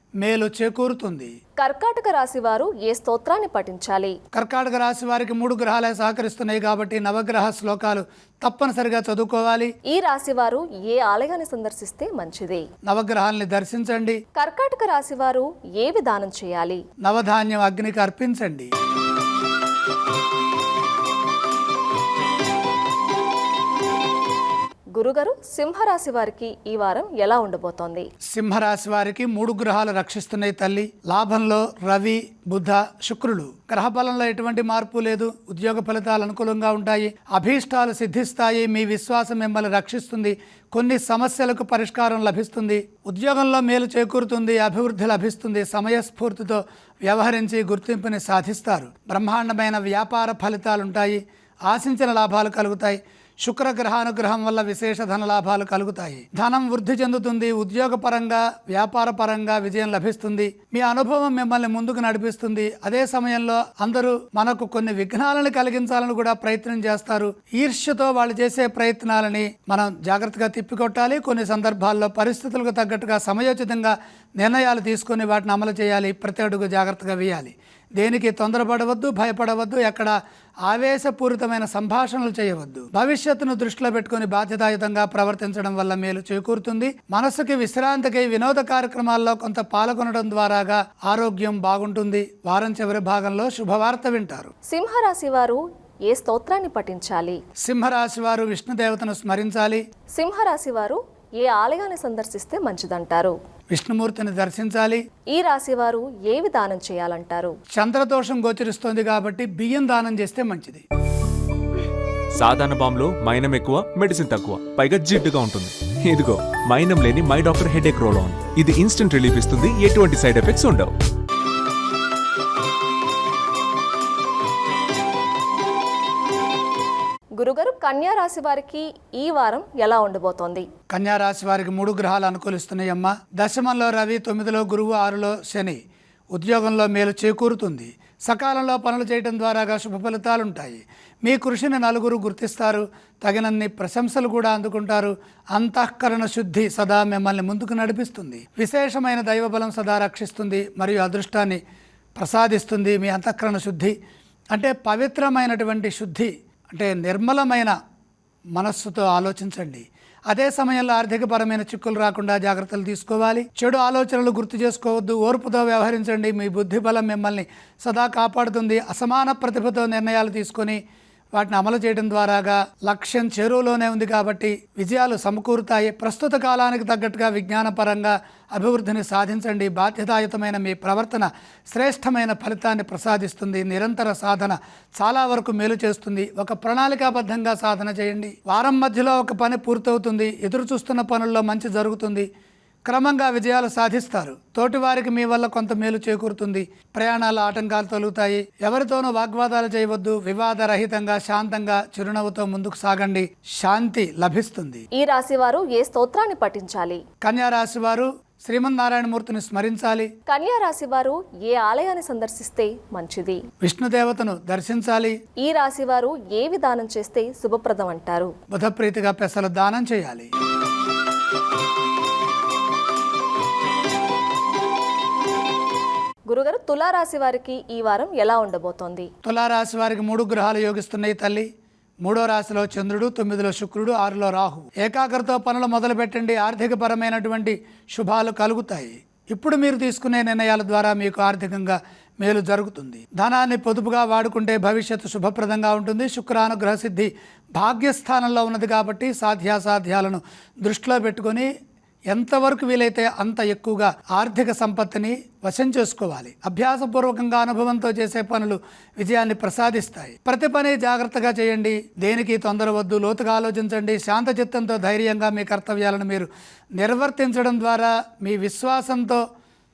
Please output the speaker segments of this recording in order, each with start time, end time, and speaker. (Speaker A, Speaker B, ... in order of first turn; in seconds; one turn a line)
Speaker A: 0.2-1.3
Speaker B: 1.6-4.2
Speaker A: 4.3-9.7
Speaker B: 9.9-12.6
Speaker A: 12.8-14.2
Speaker B: 14.3-16.8
Speaker A: 17.0-18.7
Speaker B: 24.9-28.1
Speaker A: 28.3-94.5
Speaker B: 94.7-97.4
Speaker A: 97.6-99.8
Speaker B: 100.1-103.3
Speaker A: 103.7-105.0
Speaker B: 105.3-107.5
Speaker A: 107.7-110.8
Speaker C: 112.3-120.9
Speaker B: 127.4-130.7
Speaker A: 130.9-135.8
Speaker A: 136.3-151.6
Speaker A: 152.2-153.9
Speaker A: 154.5-157.7
Speaker A: 158.5-170.8
Speaker A: 171.3-192.3
Speaker A: 192.8-204.8
Speaker B: 204.9-207.0
Speaker A: 207.2-210.1
Speaker B: 210.3-213.4
Speaker A: 213.6-215.2
Speaker B: 215.4-218.3
Speaker A: 218.5-220.3
Speaker B: 226.3-229.1
Speaker A: 229.2-231.5
Speaker A: 232.0-251.5
Speaker A: 252.1-269.2